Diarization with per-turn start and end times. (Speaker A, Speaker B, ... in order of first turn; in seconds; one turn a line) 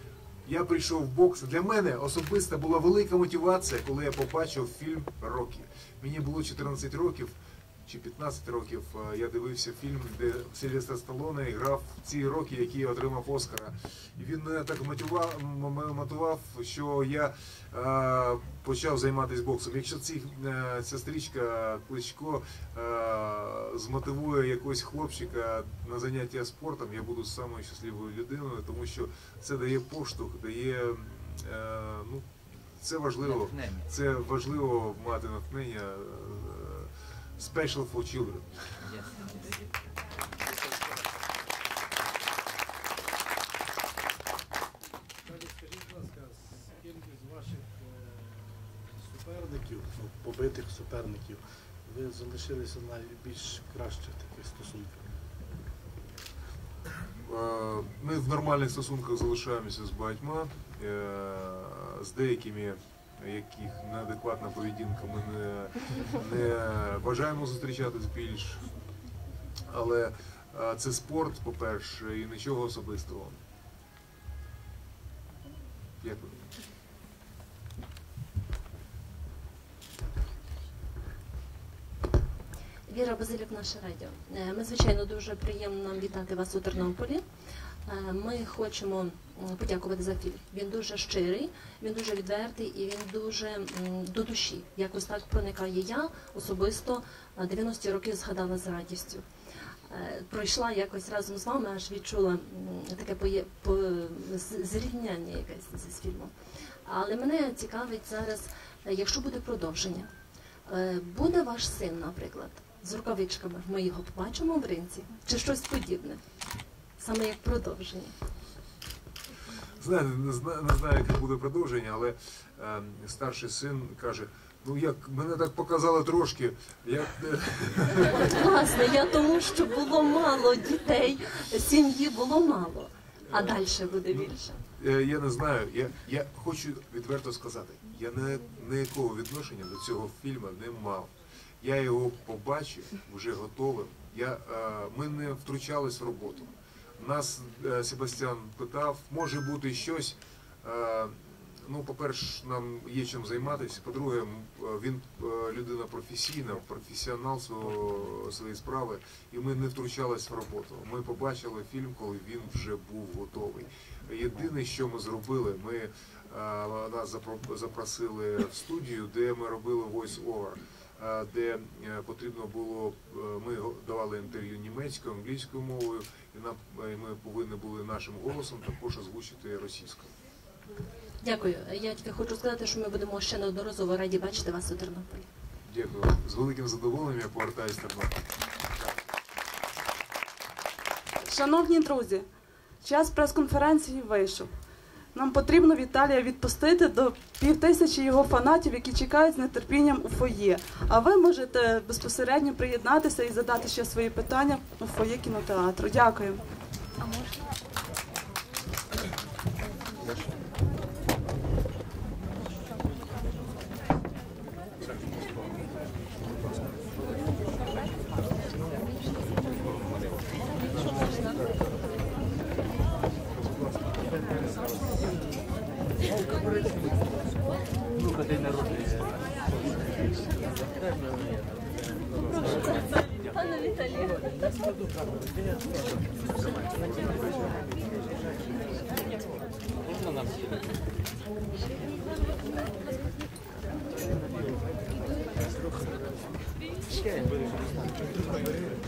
Speaker A: 0.5-38.9
Speaker B: 33.2-33.9
Speaker B: 38.8-39.6
Speaker C: 45.2-55.1
Speaker A: 57.2-68.7
Speaker A: 69.7-73.4
Speaker A: 76.0-76.5
Speaker D: 82.9-87.2
Speaker D: 87.9-99.2
Speaker D: 99.9-106.3
Speaker D: 106.9-110.1
Speaker D: 110.7-116.2
Speaker D: 117.0-118.1
Speaker A: 119.8-128.3
Speaker D: 128.2-134.5
Speaker A: 133.3-180.2
Speaker D: 181.2-185.3
Speaker A: 185.7-188.2
Speaker E: 191.2-192.3
Speaker E: 192.8-194.6
Speaker E: 195.1-206.5
Speaker A: 236.5-237.7
Speaker B: 239.9-240.6